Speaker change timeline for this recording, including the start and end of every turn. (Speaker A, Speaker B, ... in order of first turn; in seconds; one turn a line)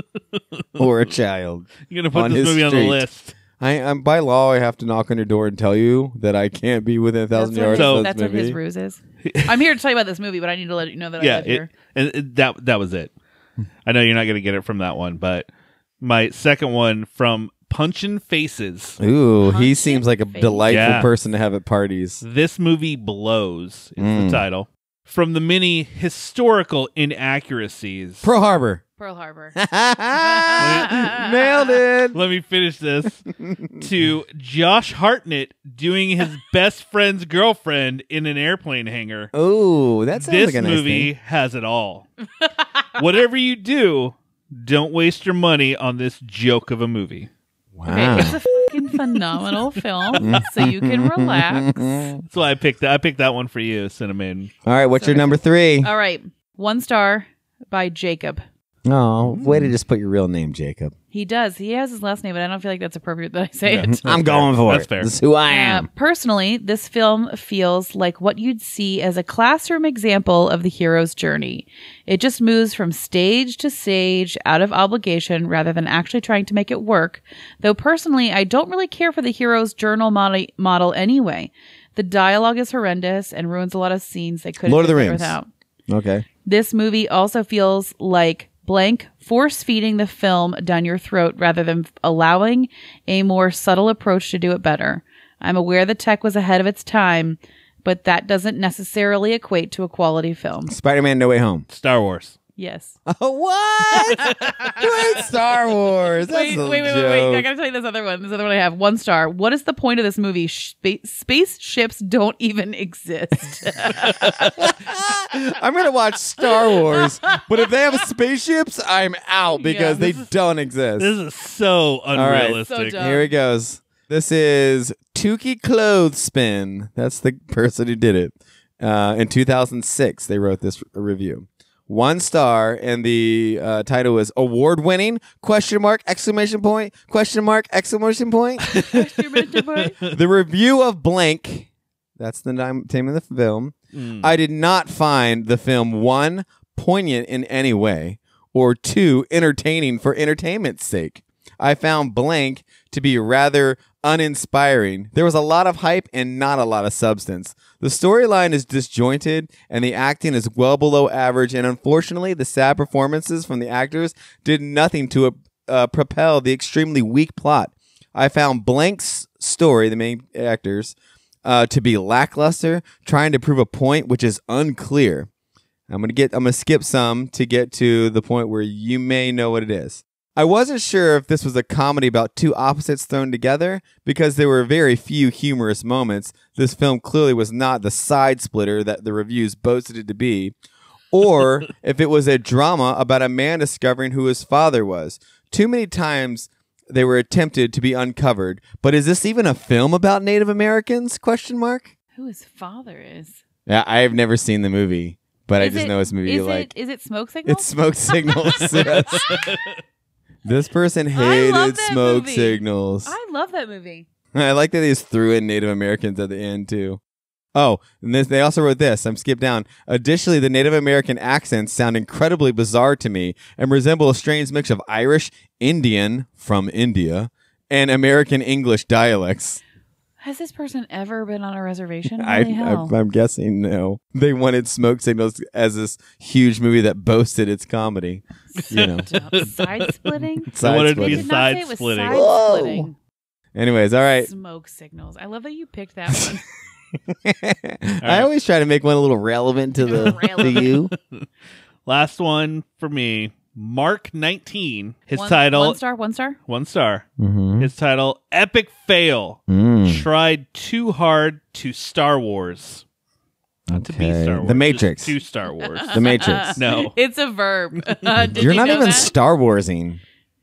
Speaker A: 0.4-0.8
Speaker B: 0.8-3.0
Speaker A: 1.9-3.4
Speaker B: 3.6-8.6
Speaker C: 7.3-11.7
Speaker A: 7.7-8.1
Speaker A: 9.2-9.5
Speaker A: 11.2-13.1
Speaker A: 13.9-15.5
Speaker A: 16.0-19.0
Speaker B: 19.0-22.2
Speaker C: 19.4-21.0
Speaker A: 20.7-21.1
Speaker A: 22.2-28.3
Speaker B: 24.0-24.4
Speaker B: 28.2-28.8
Speaker C: 29.0-29.6
Speaker B: 29.6-32.2
Speaker C: 30.1-31.5
Speaker A: 30.6-31.1
Speaker A: 32.1-33.2
Speaker B: 33.4-33.9
Speaker A: 33.8-39.3
Speaker B: 39.3-41.1
Speaker A: 40.1-42.1
Speaker A: 43.0-47.3
Speaker B: 47.8-48.4
Speaker C: 47.9-52.0
Speaker B: 50.2-52.2
Speaker A: 52.3-54.5
Speaker B: 54.6-55.9
Speaker C: 55.0-58.4
Speaker B: 58.9-60.9
Speaker A: 59.2-59.7
Speaker C: 61.1-64.0
Speaker A: 63.7-65.1
Speaker B: 63.8-65.9
Speaker C: 65.5-85.5
Speaker B: 84.6-85.4
Speaker B: 85.9-86.2
Speaker C: 86.5-100.8
Speaker B: 100.7-101.6
Speaker A: 101.7-102.4
Speaker C: 102.6-103.0
Speaker B: 103.1-107.5
Speaker C: 103.9-104.8
Speaker C: 106.3-114.5
Speaker B: 114.0-121.1
Speaker C: 116.7-117.4
Speaker C: 119.5-120.0
Speaker A: 120.0-120.3
Speaker A: 121.0-123.0
Speaker B: 122.1-138.7
Speaker C: 122.6-123.3
Speaker A: 138.6-140.2
Speaker C: 138.8-140.0
Speaker B: 140.0-175.3
Speaker A: 143.9-144.3
Speaker B: 175.9-190.5
Speaker B: 191.1-201.9
Speaker C: 202.2-203.4
Speaker B: 203.7-206.7
Speaker C: 205.6-209.5
Speaker B: 207.4-209.4
Speaker A: 208.7-209.8
Speaker B: 210.4-213.1
Speaker C: 211.1-214.1
Speaker B: 214.3-217.0
Speaker B: 217.5-229.6
Speaker C: 230.2-232.9
Speaker B: 232.2-239.1
Speaker C: 238.5-242.9
Speaker A: 238.6-242.2
Speaker B: 240.5-241.3
Speaker B: 242.1-242.9
Speaker B: 243.5-244.3
Speaker C: 244.2-246.4
Speaker B: 247.1-250.9
Speaker A: 248.0-248.3
Speaker C: 249.8-250.7
Speaker A: 250.0-251.2
Speaker A: 251.8-255.8
Speaker C: 255.1-256.4
Speaker A: 256.5-257.1
Speaker B: 257.2-257.7
Speaker A: 257.6-262.8
Speaker B: 259.5-260.1
Speaker B: 263.7-265.2
Speaker A: 263.7-266.0
Speaker C: 265.6-269.1
Speaker B: 265.9-266.6
Speaker A: 266.6-266.9
Speaker A: 267.8-268.5
Speaker B: 268.2-270.0